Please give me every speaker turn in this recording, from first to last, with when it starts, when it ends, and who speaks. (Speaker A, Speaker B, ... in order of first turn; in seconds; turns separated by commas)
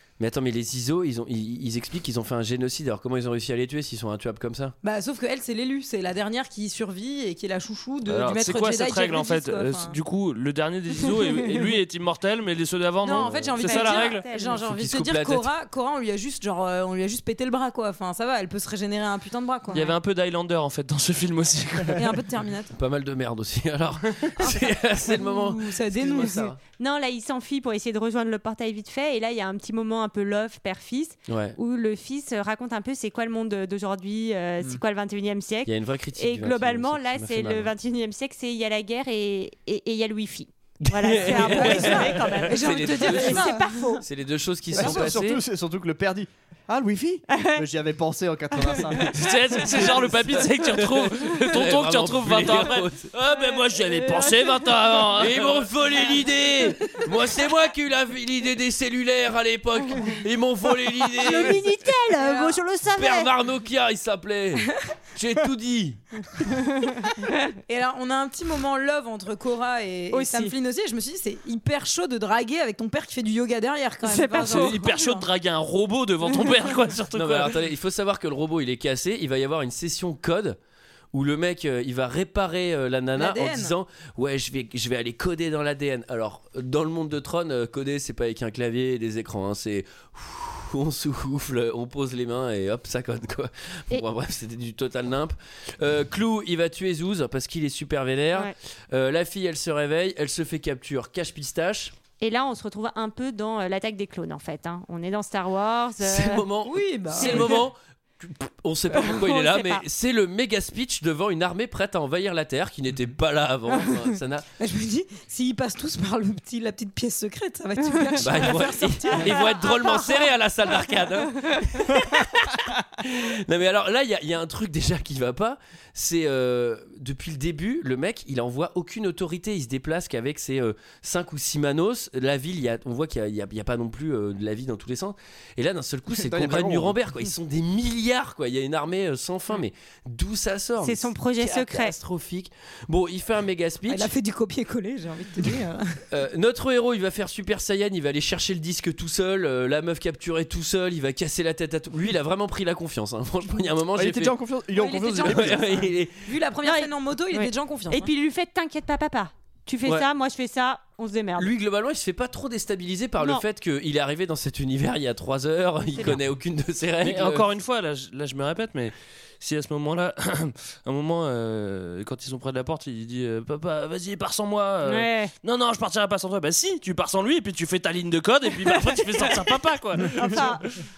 Speaker A: 0.2-4.8, Speaker B: 4.8-10.0, Speaker C: 8.1-14.2, Speaker B: 13.0-20.0, Speaker A: 13.2-13.6, Speaker D: 13.6-14.6, Speaker A: 14.6-15.5, Speaker C: 19.7-22.2, Speaker B: 22.0-22.7, Speaker A: 22.7-26.6, Speaker B: 24.4-26.5, Speaker D: 26.8-44.0, Speaker A: 31.3-31.6, Speaker A: 35.7-37.7, Speaker A: 40.8-45.4, Speaker B: 41.2-43.9, Speaker E: 44.7-50.4, Speaker B: 44.8-45.1, Speaker D: 47.3-47.6, Speaker C: 49.1-56.1, Speaker A: 50.8-53.1, Speaker D: 54.1-54.5, Speaker A: 55.2-61.7, Speaker D: 61.1-63.3, Speaker B: 62.2-62.6, Speaker A: 63.0-66.0, Speaker D: 66.7-67.5, Speaker B: 67.7-75.3, Speaker D: 70.1-70.5, Speaker D: 74.0-74.7, Speaker C: 74.5-77.5, Speaker A: 77.1-80.6, Speaker A: 81.1-101.9, Speaker B: 83.2-83.8, Speaker D: 102.2-106.5, Speaker A: 106.0-114.5, Speaker B: 106.7-107.5, Speaker D: 107.2-107.7, Speaker D: 108.9-109.8, Speaker B: 114.6-119.5, Speaker D: 118.0-118.4, Speaker A: 118.2-144.1, Speaker D: 119.3-120.2, Speaker D: 121.3-122.0, Speaker E: 136.1-137.0, Speaker D: 140.8-142.0, Speaker B: 143.9-146.0, Speaker A: 146.1-154.4, Speaker E: 153.9-155.9, Speaker B: 154.8-158.1, Speaker A: 155.2-156.3, Speaker D: 156.6-161.5, Speaker A: 161.4-167.5, Speaker D: 165.9-166.2, Speaker C: 167.0-180.7, Speaker D: 174.8-175.3, Speaker D: 180.1-180.7